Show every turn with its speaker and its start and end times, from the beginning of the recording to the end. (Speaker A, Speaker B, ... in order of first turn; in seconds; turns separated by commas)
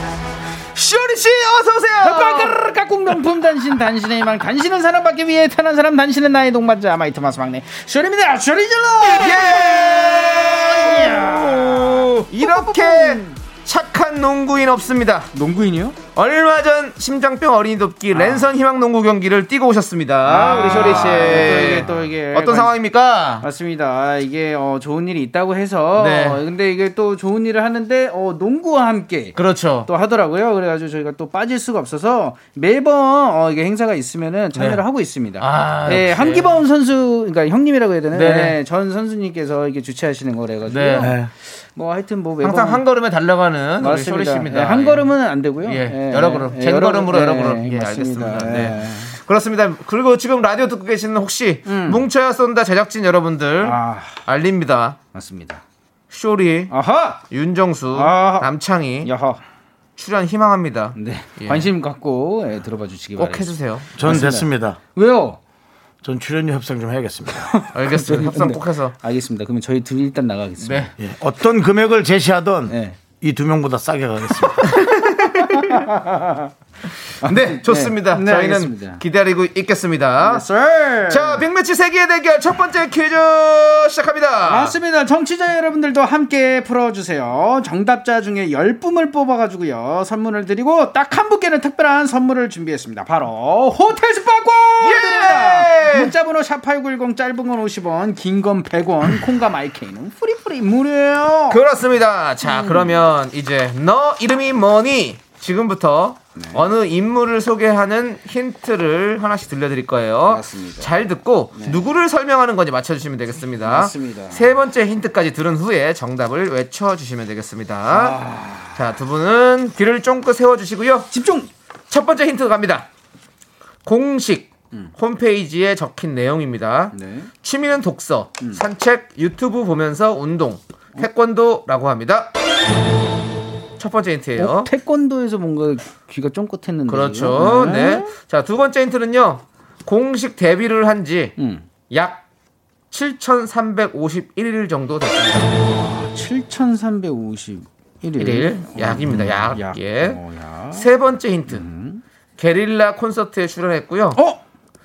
Speaker A: 0.8-2.6, Speaker B: 2.0-13.4, Speaker A: 9.1-15.3, Speaker B: 15.3-16.0, Speaker A: 16.1-23.5, Speaker B: 18.1-18.5, Speaker B: 20.3-22.8, Speaker B: 23.4-42.8, Speaker A: 26.0-26.4, Speaker A: 29.4-29.9, Speaker C: 34.5-34.8, Speaker A: 35.4-36.6, Speaker A: 38.1-38.6, Speaker A: 40.7-41.2, Speaker C: 41.0-41.3, Speaker A: 42.4-45.1, Speaker B: 43.8-49.1, Speaker A: 45.6-55.0, Speaker B: 51.7-52.1, Speaker B: 53.6-54.1, Speaker B: 55.1-55.6, Speaker A: 56.1-56.7, Speaker B: 56.7-57.2, Speaker A: 57.3-59.1, Speaker B: 57.9-58.5, Speaker B: 59.0-59.4, Speaker A: 60.0-61.7, Speaker B: 61.0-65.4, Speaker A: 63.2-63.9, Speaker C: 64.0-64.8, Speaker C: 66.0-67.5, Speaker B: 67.5-70.9, Speaker A: 67.7-69.0, Speaker A: 70.6-70.9, Speaker C: 71.0-74.7, Speaker B: 72.7-73.0, Speaker A: 74.6-75.9, Speaker B: 75.5-76.5, Speaker B: 77.2-79.0, Speaker A: 77.2-80.5, Speaker B: 80.2-81.5, Speaker A: 81.1-84.8, Speaker B: 84.5-101.6, Speaker A: 94.8-96.1, Speaker A: 101.5-118.2, Speaker B: 102.5-103.0, Speaker B: 106.4-106.7, Speaker B: 110.3-110.9, Speaker B: 111.5-111.8, Speaker B: 113.6-114.5, Speaker B: 117.9-118.9, Speaker A: 118.8-121.1, Speaker B: 121.1-121.5, Speaker A: 121.9-122.9, Speaker A: 123.9-132.3, Speaker B: 126.9-127.3, Speaker A: 133.8-134.7, Speaker B: 134.4-138.1, Speaker A: 136.9-141.4, Speaker B: 141.4-141.6, Speaker A: 141.9-142.2, Speaker A: 142.9-145.5, Speaker B: 145.7-150.9, Speaker A: 148.2-151.7, Speaker B: 151.5-152.0, Speaker A: 152.4-154.2, Speaker B: 154.2-154.4